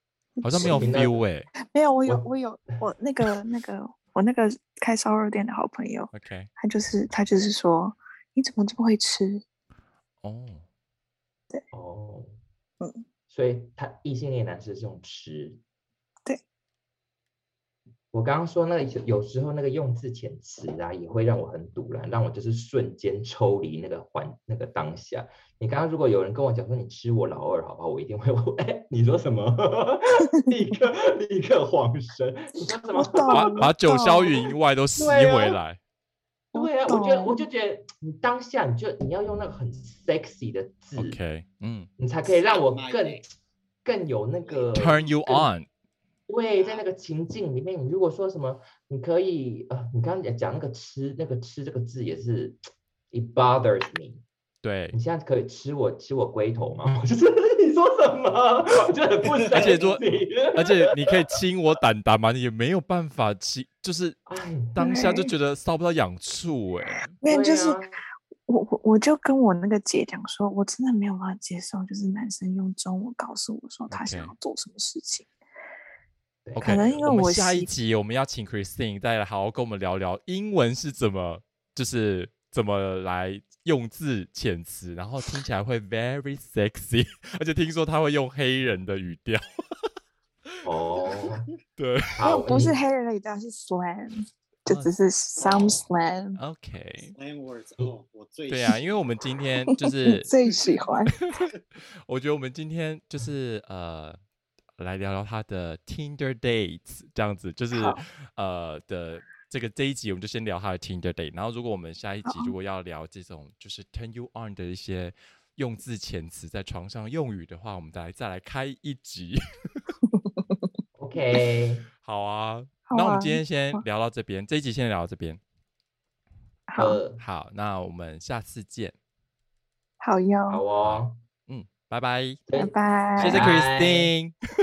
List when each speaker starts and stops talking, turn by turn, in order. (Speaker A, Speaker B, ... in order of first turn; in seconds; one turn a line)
Speaker A: 0.4-0.9
Speaker B: 0.4-1.5
Speaker C: 0.6-1.2
Speaker A: 1.6-9.4
Speaker B: 6.1-6.5
Speaker B: 10.2-10.7
Speaker C: 11.7-12.4
Speaker C: 13.3-15.6
Speaker C: 18.1-33.7
Speaker A: 32.9-34.5
Speaker B: 33.3-35.8
Speaker C: 35.0-35.6
Speaker A: 36.5-37.4
Speaker C: 36.5-41.2
Speaker B: 41.0-41.9
Speaker C: 42.0-43.3
Speaker D: 42.3-43.2
Speaker C: 43.9-45.5
Speaker D: 44.4-45.1
Speaker B: 44.7-45.7
Speaker C: 46.3-54.2
Speaker D: 46.6-46.9
Speaker B: 54.6-55.0
Speaker C: 54.9-61.2
Speaker D: 59.3-60.2
Speaker B: 59.5-60.0
Speaker B: 60.5-64.2
Speaker C: 64.3-65.2
Speaker B: 64.8-67.1
Speaker A: 64.8-65.3
Speaker A: 67.2-67.9
Speaker C: 67.2-67.9
Speaker A: 68.5-75.3
Speaker B: 73.9-74.3
Speaker C: 76.5-77.2
Speaker B: 76.6-89.7
Speaker A: 76.6-77.7
Speaker C: 90.6-91.5
Speaker D: 91.1-91.5
Speaker B: 91.8-92.2
Speaker C: 92.1-92.8
Speaker A: 92.2-96.4
Speaker B: 94.7-94.9
Speaker B: 96.3-97.1
Speaker D: 97.2-98.9
Speaker B: 98.5-100.3
Speaker A: 99.8-101.2
Speaker D: 100.5-100.9
Speaker B: 102.1-104.2
Speaker B: 104.8-119.8
Speaker A: 107.7-108.0
Speaker A: 112.2-112.5
Speaker A: 120.1-120.7
Speaker C: 121.0-121.9
Speaker B: 122.0-125.4
Speaker A: 122.9-123.8
Speaker A: 126.7-127.0
Speaker C: 126.8-127.2
Speaker B: 127.2-128.9
Speaker A: 130.0-130.6
Speaker C: 130.5-131.2
Speaker B: 130.8-132.4
Speaker C: 132.5-134.1
Speaker A: 132.5-133.4
Speaker B: 133.2-134.3